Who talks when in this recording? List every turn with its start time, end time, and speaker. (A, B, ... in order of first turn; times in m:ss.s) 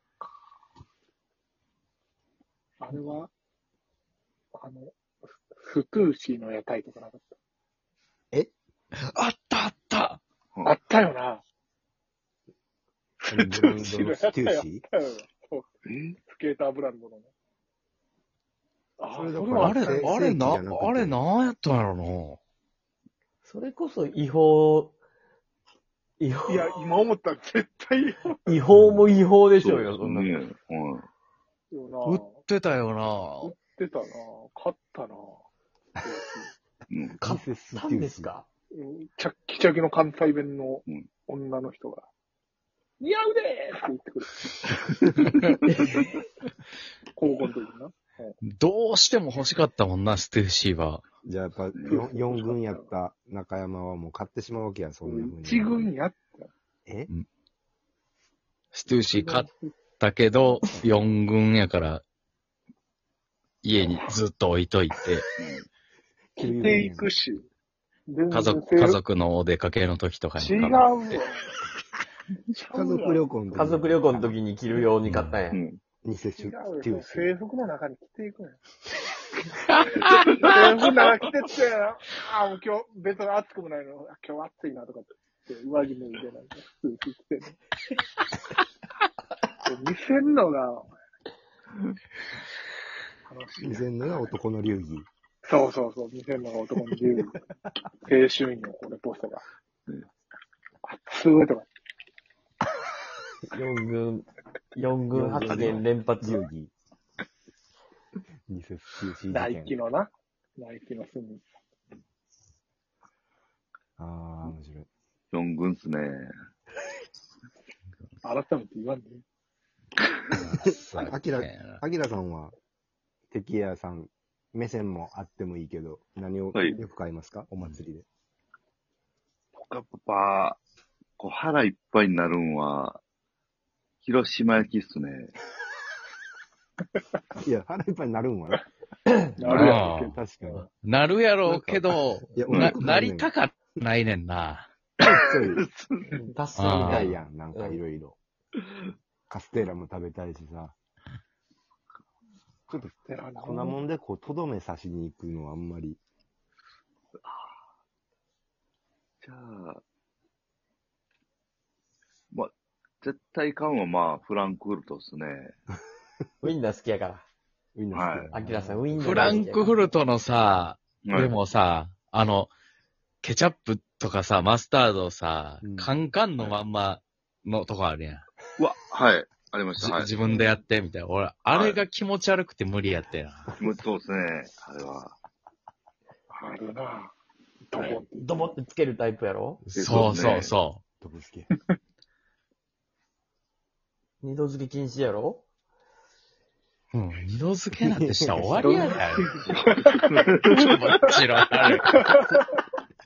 0:02.8-0:03.3 A
0:04.5-0:04.9 A
0:05.5-0:07.3 A
0:09.0-0:10.2 B
0:10.6-0:11.4 A
0:13.3-0:14.8 C
0:13.3-0:17.3 A
0:15.8-0:16.2 D
0:19.0-0:20.2 A
0:19.1-0:21.2 C
0:19.5-0:22.4 B
0:23.4-0:24.9 E
0:26.2-0:26.7 E
0:26.5-0:28.6 A
0:28.4-0:30.4 E
0:29.6-0:31.1 D
0:31.7-0:32.4 A
0:32.0-0:33.5 B
0:33.4-0:35.4 A
0:36.0-0:36.5 A
0:36.9-0:37.2 D
0:37.2-0:38.5 E
0:37.2-0:38.3 C
0:38.7-0:42.1 A
0:43.0-0:44.5 A
0:47.1-0:48.4 A
0:48.4-0:51.0 B
0:51.2-0:55.9 C
0:51.7-0:52.0 D
0:51.9-0:52.8 A
0:55.0-0:56.5 A
0:58.7-1:02.0 B
0:58.9-0:59.8 A
1:00.4-1:00.9 C
1:03.6-1:05.3 B
1:05.4-1:05.7 D
1:06.4-1:07.1 C
1:06.4-1:07.4 A
1:08.1-1:09.0 A
1:08.3-1:10.9 B
1:10.4-1:11.5 A
1:12.5-1:13.2 A
1:12.7-1:14.4 C
1:13.5-1:15.6 E
1:15.0-1:15.4 B
1:15.5-1:15.8 D
1:16.0-1:17.3 C
1:16.4-1:18.6 A
1:19.7-1:20.5 B
1:20.2-1:20.4 D
1:20.3-1:27.6 A
1:29.6-1:30.9 A
1:33.3-1:34.2 A
1:33.6-1:35.1 C
1:35.4-1:37.4 A
1:38.1-1:39.4 A
1:40.8-1:41.7 A
1:43.5-1:46.5 E
1:45.1-1:46.7 C
1:48.5-1:49.7 C
1:49.3-1:51.4 A
1:54.0-1:54.9 C
1:55.3-1:56.3 D
1:58.2-1:59.2 A
2:00.3-2:01.8 B
2:00.6-2:02.5 C
2:03.3-2:08.0 C
2:06.5-2:06.8 D
2:09.5-2:10.6 D
2:11.2-2:13.0 D
2:14.0-2:15.3 D
2:17.4-2:18.6 C
2:19.4-2:20.2 A
2:19.4-2:19.8 D
2:19.5-2:20.7 C
2:19.6-2:20.1 B
2:20.8-2:24.7 B
2:21.4-2:23.3 C
2:22.5-2:22.8 D
2:25.0-2:26.1 D
2:25.0-2:25.6 C
2:26.1-2:27.8 E
2:26.6-2:27.2 B
2:26.8-2:28.2 C
2:29.3-2:30.7 C
2:32.7-2:36.0 C
2:33.0-2:33.8 A
2:39.2-2:39.8 D
2:42.3-2:45.5 D
2:46.4-2:47.2 E
2:47.7-2:49.5 C
2:47.9-2:48.3 D
2:48.3-2:49.9 E
2:49.0-2:52.5 B
2:51.0-2:51.4 D
2:53.2-2:58.2 B
2:55.6-2:55.9 C
2:58.6-3:00.1 D
2:59.8-3:03.6 B
3:00.3-3:00.6 A
3:01.5-3:01.8 D
3:03.6-3:05.2 D
3:06.3-3:07.1 A
3:07.7-3:08.5 A
3:08.1-3:09.6 E
3:09.7-3:10.8 B
3:09.8-3:10.5 D
3:11.0-3:11.5 C
3:14.2-3:15.4 E
3:16.9-3:19.3 B
3:17.8-3:18.7 C
3:18.6-3:19.1 E
3:19.4-3:20.6 A
3:19.9-3:20.7 D
3:20.5-3:22.0 B
3:21.6-3:22.4 A